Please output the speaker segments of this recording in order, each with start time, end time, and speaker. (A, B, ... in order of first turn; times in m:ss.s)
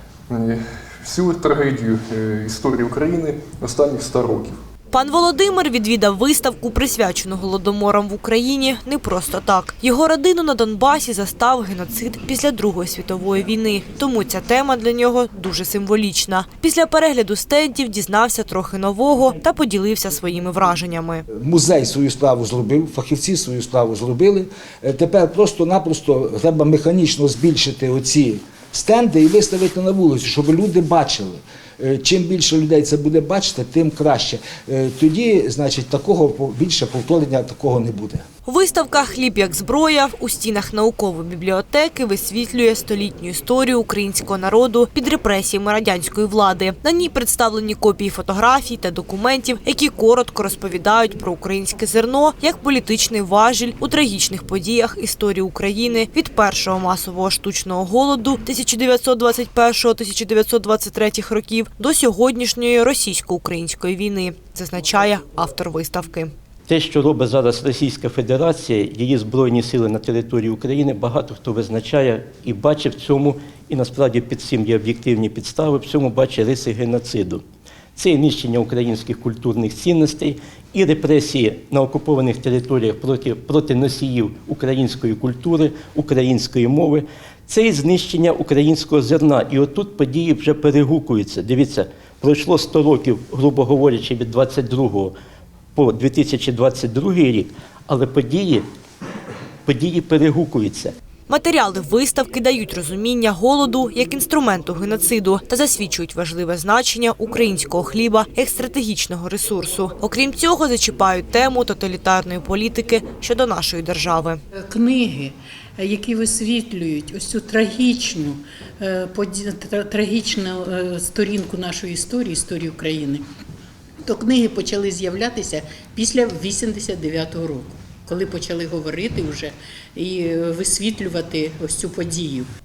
0:00.3-0:04.6 A
0:04.9-0:21.2 B
0:21.3-0:38.2 C
0:38.4-1:06.3 B
1:06.7-1:17.4 D
1:18.0-1:35.1 D
1:35.7-1:38.7 D
1:39.7-1:40.9 D
1:41.3-1:54.4 B
1:54.6-2:03.2 E
2:04.0-2:12.5 E